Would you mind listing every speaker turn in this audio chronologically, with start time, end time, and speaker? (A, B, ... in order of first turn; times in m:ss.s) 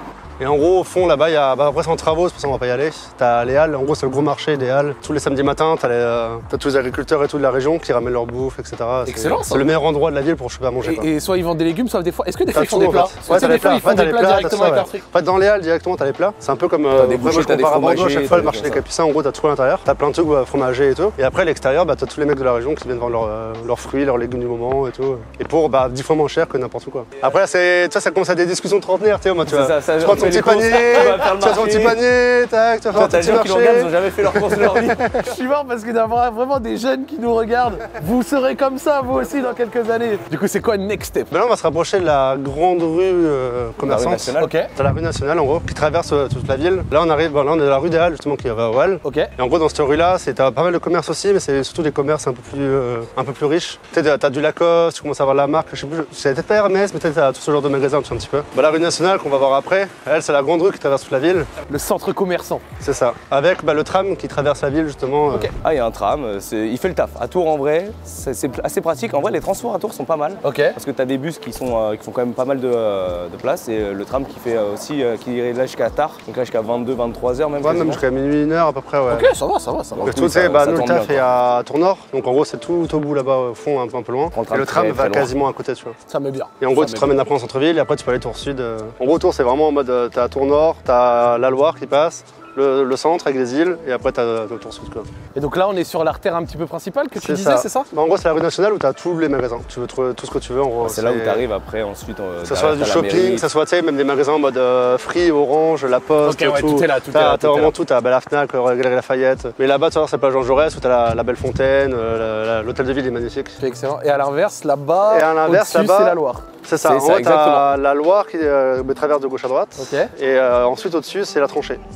0:00.4-0:11.1 A
0:09.1-0:09.7 B
0:10.8-0:15.0 B
0:12.5-0:35.2 A
0:17.0-0:18.8 C
0:29.5-0:32.0 C
0:32.9-0:35.1 C
0:35.2-0:41.3 B
0:41.3-1:01.5 A
0:43.8-0:44.5 C
0:43.9-0:44.7 B
0:49.0-0:49.3 B
1:01.7-1:02.6 B
1:02.8-1:05.5 A
1:05.6-1:18.0 C
1:10.4-1:10.8 B
1:17.6-1:19.3 A
1:19.1-1:20.1 B
1:20.0-1:21.2 C
1:20.0-1:26.0 A
1:24.3-1:25.3 C
1:26.1-1:27.2 B
1:26.6-1:35.1 A
1:35.4-1:37.9 B
1:37.2-1:41.4 A
1:40.8-1:43.5 C
1:42.4-1:53.6 A
1:46.2-1:47.7 B
1:53.6-1:56.5 B
1:55.1-2:01.8 A
1:56.8-1:57.7 C
1:59.8-2:00.1 B